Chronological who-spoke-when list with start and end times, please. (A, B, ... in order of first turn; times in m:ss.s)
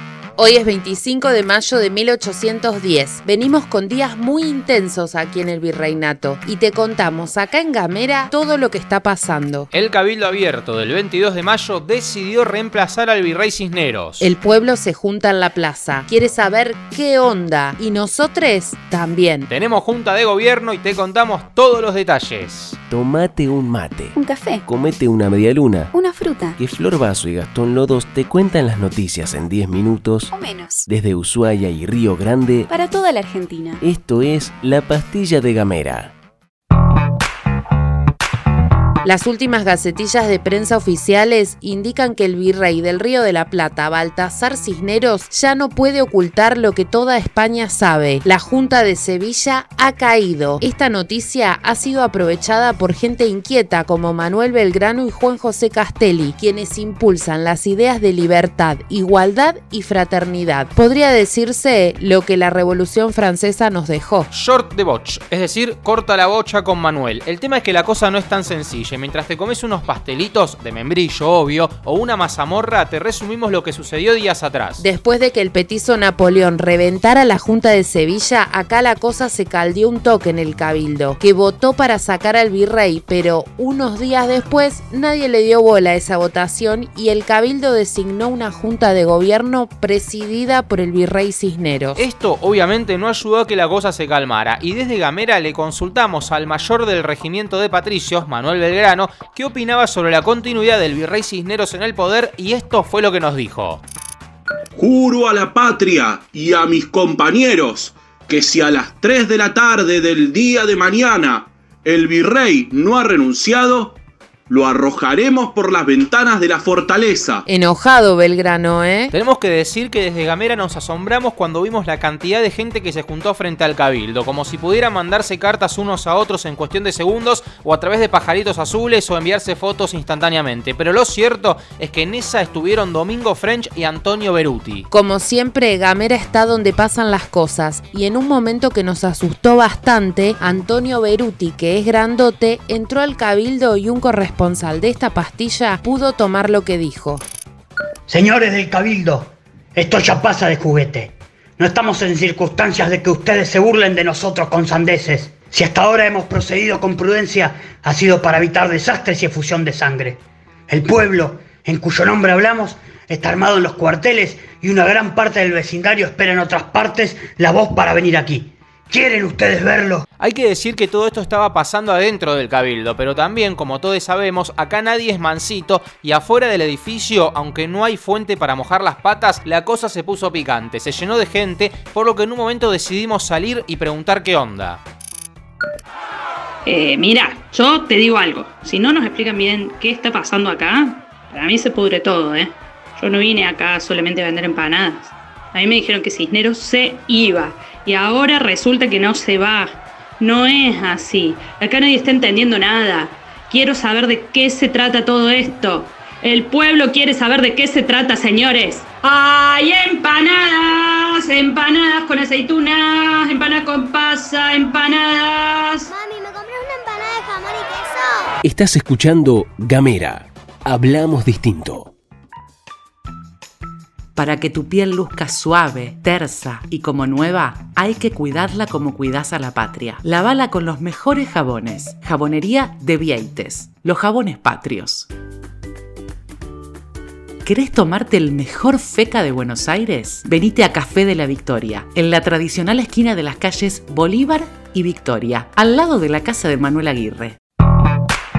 0:00.4-0:09.7 A
0:09.7-0:14.3 B
0:14.2-0:19.5 A
0:19.5-0:22.8 B
0:22.9-0:26.0 C
0:24.2-0:24.6 D
0:25.9-0:26.6 D
0:26.6-0:30.4 C
0:30.3-0:30.9 D
0:30.9-0:32.7 C
0:32.7-0:33.8 D
0:33.8-0:36.1 C
0:39.0-1:04.3 A
1:04.3-1:14.8 B
1:14.8-1:32.0 A
1:32.0-1:43.8 B
1:44.8-1:54.0 E
1:54.5-1:57.4 E
1:57.5-1:59.1 A
1:59.1-2:14.9 B
2:14.9-2:27.2 A
2:28.1-2:50.0 F
2:50.2-3:04.8 B
3:06.6-3:35.9 G
3:35.9-3:38.0 H
3:38.4-3:41.9 C
3:44.2-3:55.1 I
3:57.4-4:07.4 I